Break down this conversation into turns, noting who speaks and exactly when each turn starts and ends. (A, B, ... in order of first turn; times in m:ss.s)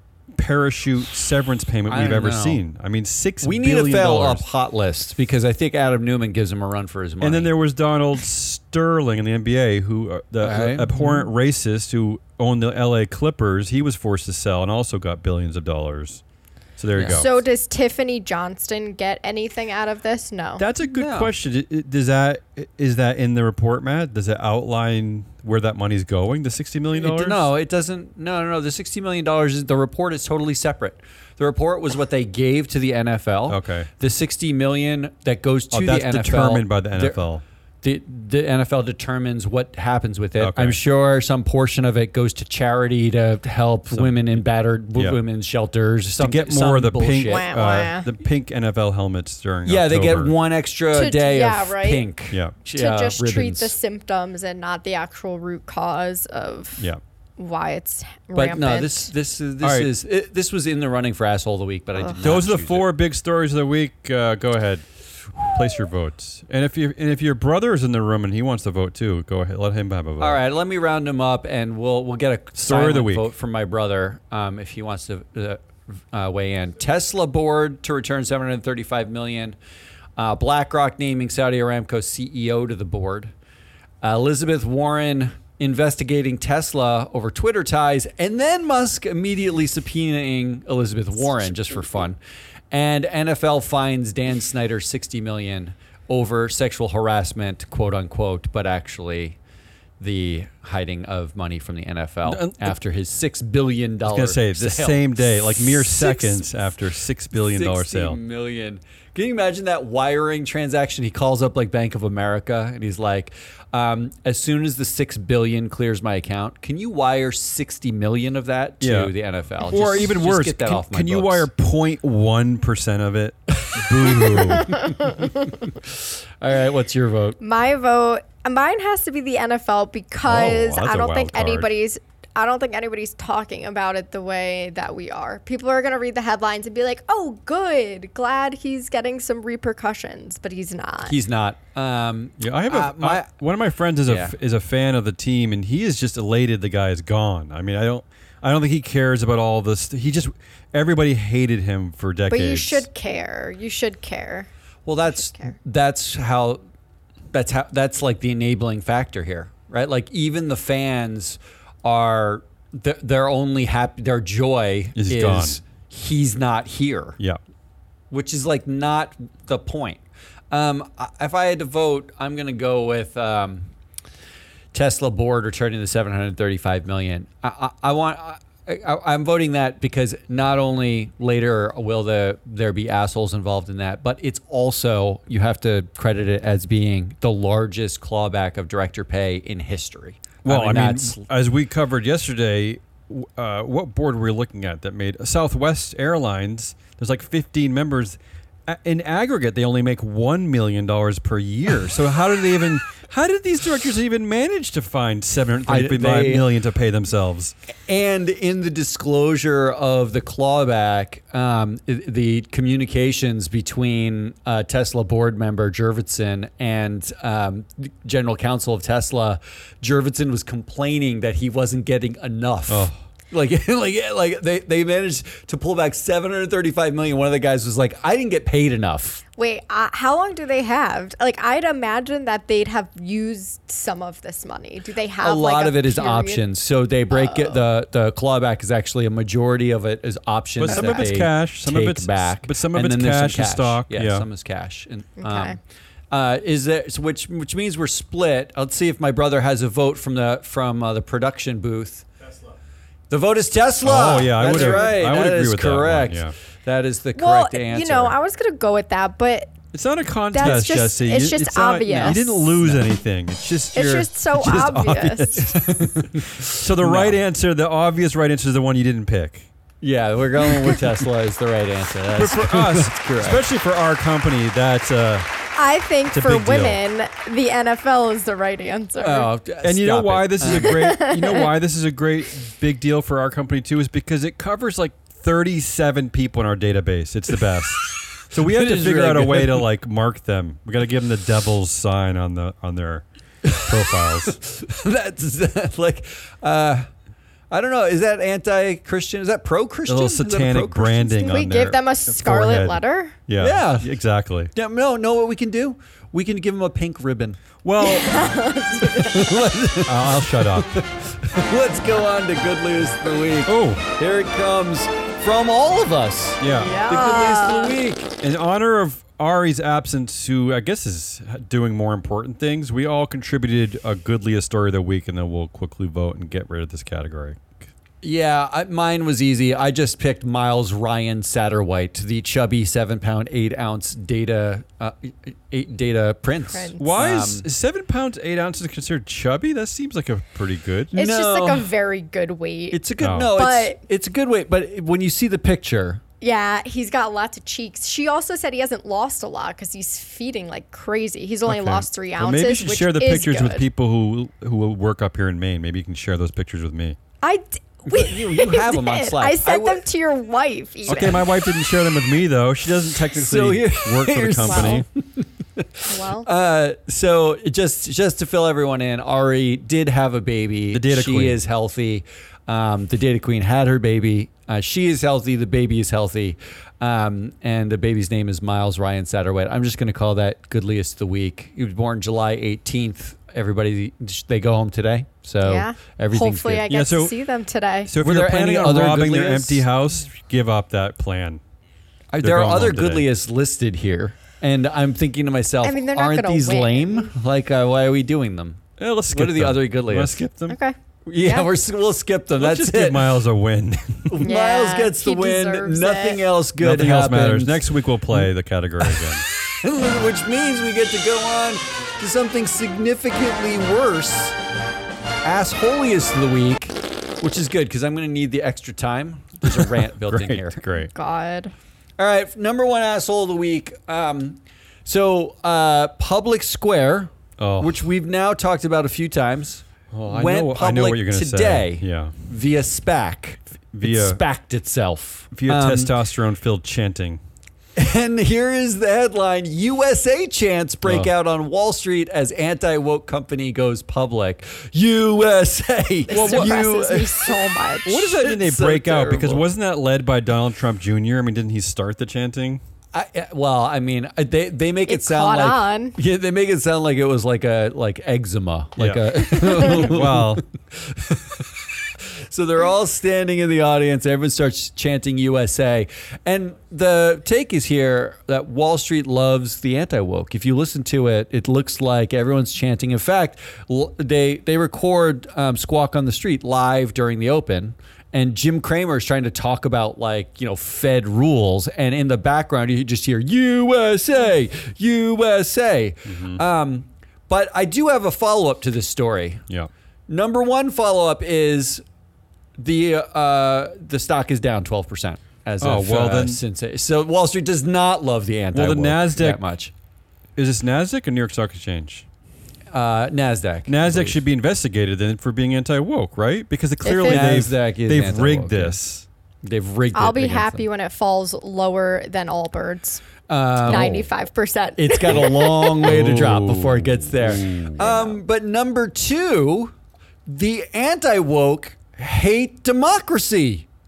0:00.3-0:04.4 A
0:01.9-0:02.6 B
0:03.4-0:07.5 B
0:07.2-0:16.2 A
0:10.4-0:11.2 B
0:16.8-0:17.4 A
0:17.0-0:17.2 B
0:17.1-0:20.6 C
0:20.6-0:27.5 A
0:21.0-0:21.3 B
0:26.9-0:37.2 B
0:33.5-0:33.9 A
0:35.7-0:37.4 A
0:37.8-0:47.5 B
0:40.4-0:40.8 A
0:43.9-0:44.4 A
0:44.9-0:45.2 A
0:46.2-0:50.3 A
0:47.3-0:48.1 C
0:49.6-0:53.7 B
0:50.9-0:52.1 C
0:52.7-0:59.1 C
0:58.3-1:02.9 B
0:59.6-0:59.9 A
1:02.2-1:04.8 A
1:05.4-1:10.4 A
1:10.2-1:19.6 B
1:12.6-1:13.3 A
1:20.2-1:23.3 B
1:24.0-1:32.2 B
1:31.3-1:31.9 C
1:32.7-1:39.4 B
1:40.0-1:45.0 B
1:42.2-1:42.7 A
1:44.0-1:48.2 A
1:45.6-1:46.5 B
1:47.3-2:01.5 B
1:58.8-2:04.8 A
2:03.7-2:07.4 B
2:04.6-2:05.2 C
2:07.4-2:21.2 C
2:10.2-2:11.7 A
2:21.0-2:23.3 B
2:22.4-2:32.8 A
2:24.1-2:24.3 B
2:32.3-2:34.5 C
2:34.8-2:36.6 B
2:35.1-2:35.5 C
2:37.3-2:47.2 B
2:44.9-2:45.6 A
2:48.1-2:53.7 B
2:54.7-3:11.2 B
3:10.4-3:27.5 A
3:25.7-3:26.5 B
3:27.9-3:49.2 B
3:42.7-3:43.0 A
3:49.4-3:56.4 C
3:55.2-4:05.6 B
3:57.1-3:57.6 C
4:00.6-4:04.2 A
4:00.7-4:01.0 C
4:05.2-4:05.6 C
4:06.1-4:12.0 B
4:13.1-4:18.2 B
4:13.8-4:16.3 A
4:17.2-4:19.6 C
4:19.7-4:29.5 A
4:20.3-4:22.5 C
4:20.4-4:20.8 B
4:21.9-4:22.8 B
4:23.7-4:25.4 C
4:25.4-4:27.2 B
4:29.8-4:33.4 B
4:32.1-4:35.3 A
4:35.6-4:39.3 C
4:36.1-4:36.8 A
4:39.0-4:40.8 B
4:39.6-4:54.4 A
4:40.5-4:41.5 C
4:48.1-4:49.6 B
4:53.4-4:56.9 B
4:57.5-5:01.2 B
4:59.9-5:04.5 A
5:01.2-5:03.2 C
5:03.4-5:04.0 B
5:04.5-5:07.4 B
5:07.6-5:08.3 A
5:07.8-5:09.4 C
5:09.0-5:18.1 B
5:09.8-5:10.7 A
5:13.5-5:13.8 A
5:16.4-5:16.8 A
5:16.5-5:17.8 C
5:18.2-5:27.5 A
5:28.0-5:37.4 B
5:36.5-5:36.8 C
5:36.8-5:40.9 A
5:40.9-5:41.7 B
5:40.9-5:43.8 C
5:42.7-5:46.0 B
5:43.0-5:43.3 A
5:46.2-5:53.6 C
5:51.5-5:57.0 A
5:57.2-6:01.3 C
5:57.8-5:59.8 B
6:00.9-6:04.8 A
6:03.1-6:26.7 B
6:04.4-6:04.8 C
6:05.9-6:06.3 C
6:10.7-6:11.4 A
6:25.4-6:27.9 C
6:26.7-6:27.1 A
6:27.8-6:31.4 A
6:28.0-6:29.6 B
6:32.1-6:40.2 B
6:32.2-6:33.1 A
6:35.6-6:37.1 C
6:38.8-6:40.6 A
6:40.5-6:41.5 C
6:41.1-6:43.1 B
6:42.4-6:44.2 A
6:44.1-6:48.3 B
6:44.2-6:46.2 C
6:46.6-6:49.2 A
6:48.8-6:54.4 B
6:55.2-7:00.6 B
6:59.4-7:00.9 A
7:00.7-7:01.5 C
7:02.0-7:15.9 B
7:07.4-7:07.8 A
7:09.9-7:12.1 A
7:13.7-7:14.2 A
7:15.3-7:17.2 A
7:17.8-7:27.4 B
7:20.8-7:21.1 A
7:26.1-7:28.0 C
7:26.1-7:26.6 A
7:27.8-7:32.6 A
7:28.0-7:29.4 B
7:32.9-8:09.4 B
7:34.9-7:36.0 C
7:38.8-7:40.4 A
8:06.1-8:06.4 A
8:10.1-8:11.8 B
8:12.6-8:19.7 B
8:15.6-8:16.4 A
8:18.5-8:19.4 A
8:20.4-8:22.0 A
8:22.7-8:24.2 B
8:23.7-8:29.1 A
8:26.8-8:27.3 C
8:27.0-8:28.8 B
8:29.4-8:30.6 B
8:29.9-8:35.9 C
8:33.3-8:34.0 B
8:33.7-8:34.0 A
8:34.8-8:39.7 B
8:35.8-8:37.7 A
8:37.8-8:38.2 C
8:40.3-8:43.7 B